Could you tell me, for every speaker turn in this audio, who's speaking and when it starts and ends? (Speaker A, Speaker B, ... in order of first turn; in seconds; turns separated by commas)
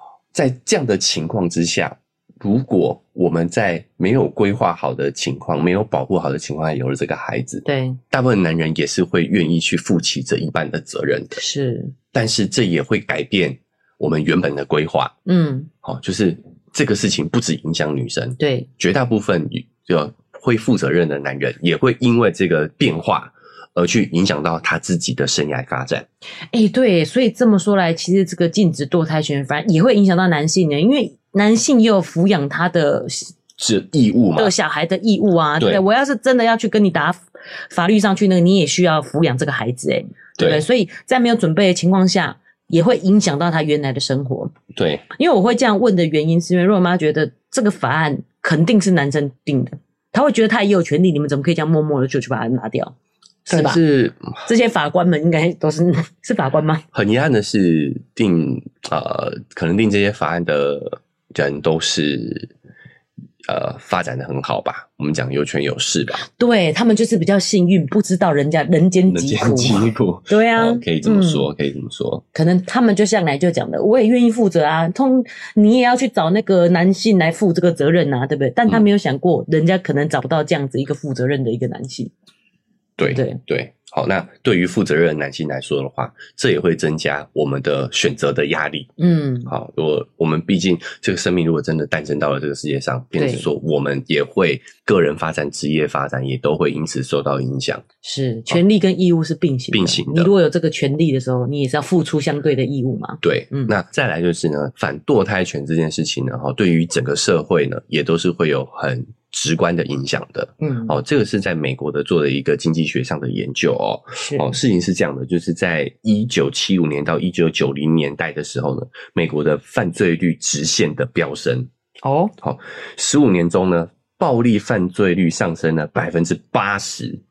Speaker A: 0.3-11.4, Speaker B: 7.6-8.0, Speaker B: 11.3-11.9, Speaker A: 12.1-15.1, Speaker B: 15.2-15.7, Speaker A: 15.8-26.1, Speaker B: 18.4-18.7, Speaker B: 26.5-33.3, Speaker A: 33.6-34.5, Speaker B: 34.4-44.5, Speaker A: 40.4-40.6, Speaker A: 44.7-45.0, Speaker B: 45.1-52.9, Speaker B: 53.5-53.8, Speaker A: 53.5-54.5, Speaker B: 54.5-56.8, Speaker A: 56.9-62.5, Speaker A: 63.4-66.2, Speaker B: 66.3-71.4, Speaker A: 69.1-72.2, Speaker B: 72.3-82.1, Speaker A: 83.0-88.9, Speaker B: 83.1-83.4, Speaker B: 89.0-89.5, Speaker A: 89.5-97.8, Speaker B: 93.2-93.5, Speaker B: 98.0-103.7, Speaker A: 99.7-100.3, Speaker A: 103.2-121.7, Speaker B: 110.6-110.9, Speaker B: 114.2-114.5, Speaker B: 122.0-122.3, Speaker A: 122.4-127.2